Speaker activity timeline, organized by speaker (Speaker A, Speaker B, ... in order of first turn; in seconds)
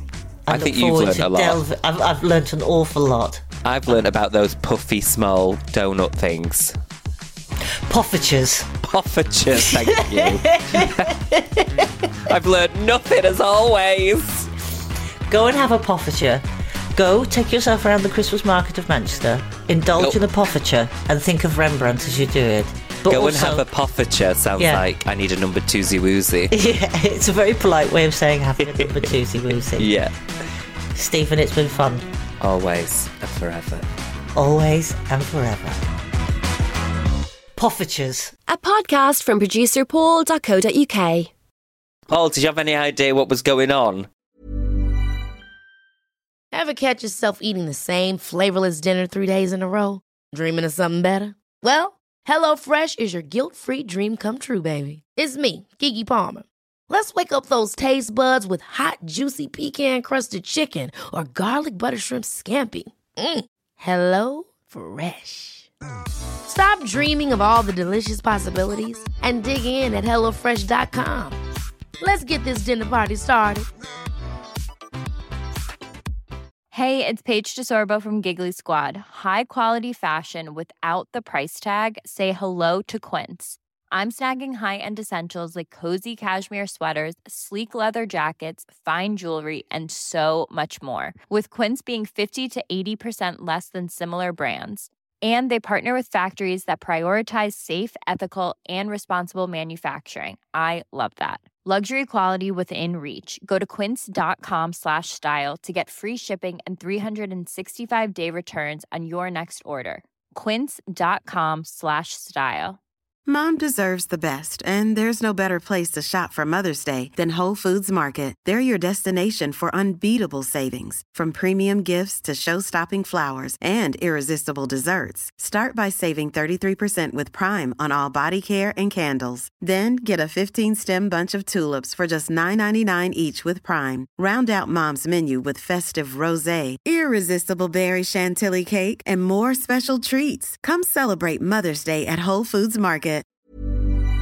Speaker A: 0.5-3.9, 7.9-8.7, 9.5-12.1, 15.3-23.6, 24.6-24.8, 26.5-29.9, 30.9-32.1, 34.3-35.8, 37.5-38.3
Speaker B: 0.5-1.6, 3.6-6.7, 8.8-11.1, 12.2-14.5, 23.1-26.5, 28.6-29.0, 29.8-30.1, 32.4-33.9, 42.1-44.1
Speaker C: 38.5-41.3
Speaker D: 46.5-65.7, 66.5-71.4, 72.0-73.7
Speaker E: 76.7-112.8
Speaker F: 113.3-143.2